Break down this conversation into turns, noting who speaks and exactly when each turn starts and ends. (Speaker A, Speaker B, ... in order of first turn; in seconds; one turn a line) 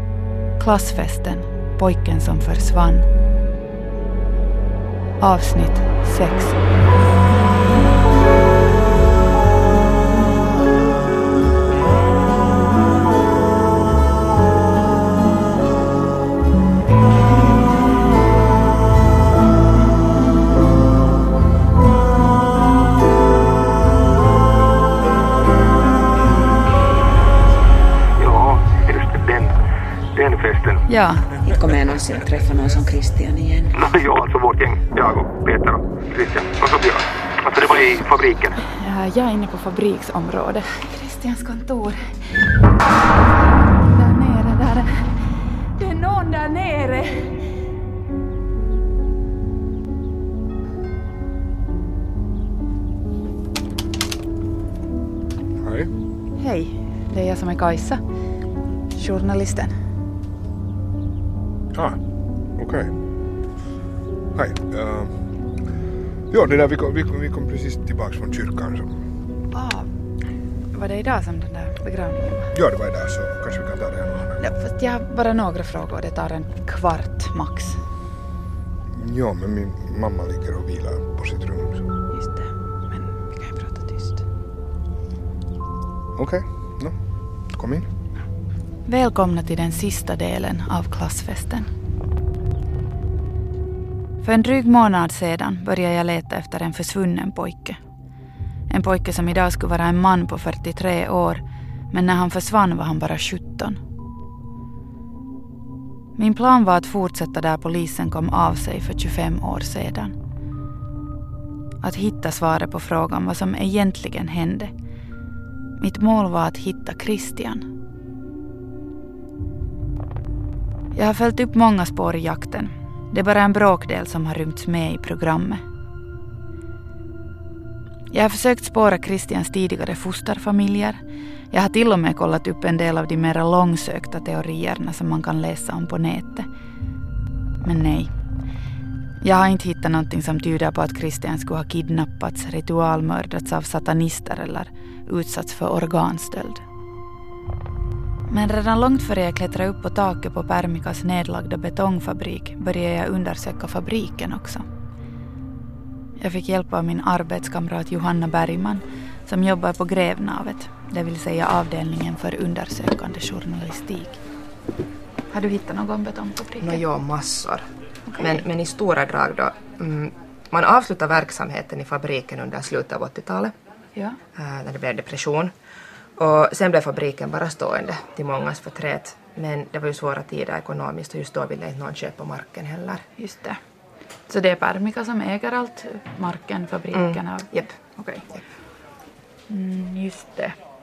Speaker A: 0.6-3.1
Speaker A: 5.2-6.6
Speaker B: 28.2-29.5
Speaker B: 30.1-30.8
Speaker A: 30.9-31.3
Speaker C: 31.4-33.7
Speaker B: 33.8-38.6
Speaker A: 38.6-42.3
Speaker A: 43.7-45.2
Speaker A: 45.8-47.4
Speaker D: 55.6-55.9
Speaker A: 56.4-58.0
Speaker A: 59.0-59.7
Speaker D: 61.7-62.0
Speaker D: 62.5-62.9
Speaker D: 64.3-65.2
Speaker D: 66.3-69.0
Speaker A: 69.5-69.9
Speaker A: 70.7-72.5
Speaker D: 72.5-74.4
Speaker A: 74.4-77.8
Speaker D: 78.9-81.8
Speaker A: 82.1-84.2
Speaker D: 86.2-87.0
Speaker D: 87.5-87.9
Speaker A: 88.8-91.7
Speaker A: 94.2-97.8
Speaker A: 98.7-103.8
Speaker A: 106.2-110.1
Speaker A: 111.8-114.7
Speaker A: 115.8-117.7
Speaker A: 120.9-125.6
Speaker A: 128.1-131.0
Speaker A: 131.5-136.5
Speaker A: 137.6-138.1
Speaker A: 139.2-146.6
Speaker A: 148.3-154.7
Speaker A: 156.2-164.2
Speaker A: 165.3-166.8
Speaker E: 166.6-167.6
Speaker A: 168.1-168.4
Speaker E: 168.2-173.5
Speaker E: 174.3-175.5
Speaker E: 176.2-183.0
Speaker A: 183.2-183.6
Speaker A: 184.3-188.3
Speaker E: 186.9-187.2
Speaker A: 189.5-190.6